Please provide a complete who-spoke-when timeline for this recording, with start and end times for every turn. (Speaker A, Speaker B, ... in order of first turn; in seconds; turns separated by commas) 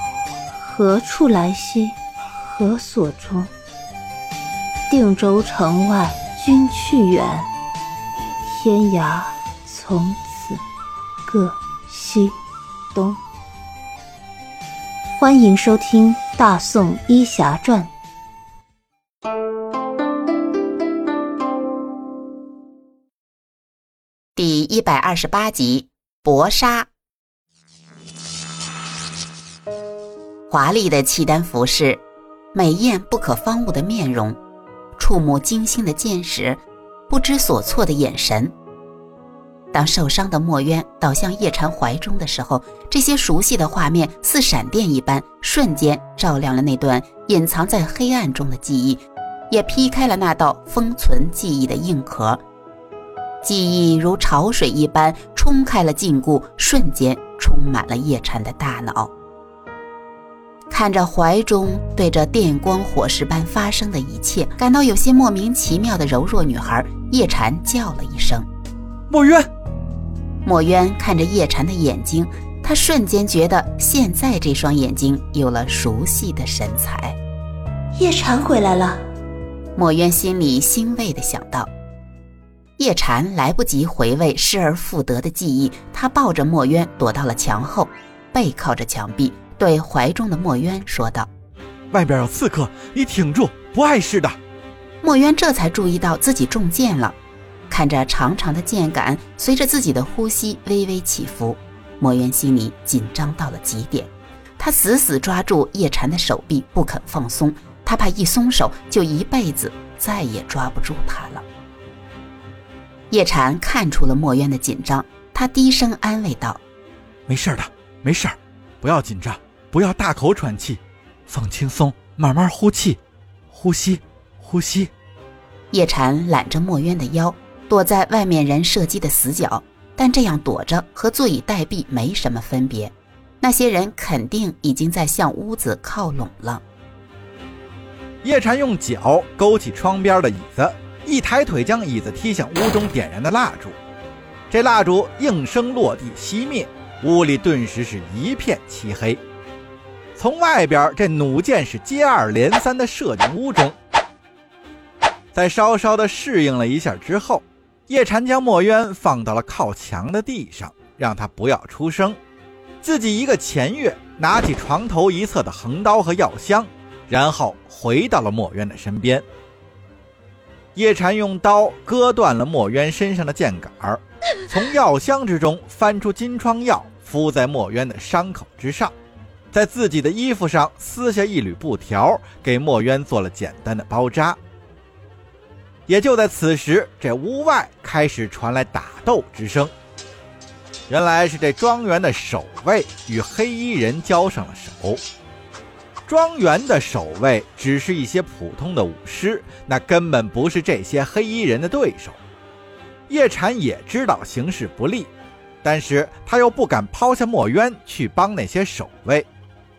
Speaker A: 0.6-3.5, Speaker A: 4.9-7.5, Speaker A: 8.4-10.6, Speaker A: 11.2-12.4, Speaker A: 12.9-13.2, Speaker A: 15.2-17.9, Speaker B: 24.3-26.9, Speaker B: 30.5-32.0, Speaker B: 32.5-34.4, Speaker B: 35.0-38.5, Speaker B: 39.7-52.4, Speaker B: 53.4-59.1, Speaker B: 60.7-68.5, Speaker C: 69.1-69.5, Speaker B: 70.4-77.2, Speaker A: 78.0-79.0, Speaker B: 79.7-81.7, Speaker B: 82.8-91.3, Speaker C: 91.9-94.4, Speaker B: 95.0-97.2, Speaker B: 97.7-111.5, Speaker B: 113.1-116.6, Speaker C: 117.3-123.0, Speaker C: 123.5-124.9, Speaker B: 125.7-136.6, Speaker C: 138.2-143.8, Speaker C: 144.5-149.2, Speaker C: 150.2-153.7, Speaker C: 155.3-162.2, Speaker C: 162.8-169.2, Speaker C: 170.7-178.9, Speaker C: 179.5-184.4, Speaker C: 185.9-189.7, Speaker C: 190.9-195.0, Speaker C: 196.1-202.2, Speaker C: 203.1-205.1, Speaker C: 205.6-209.3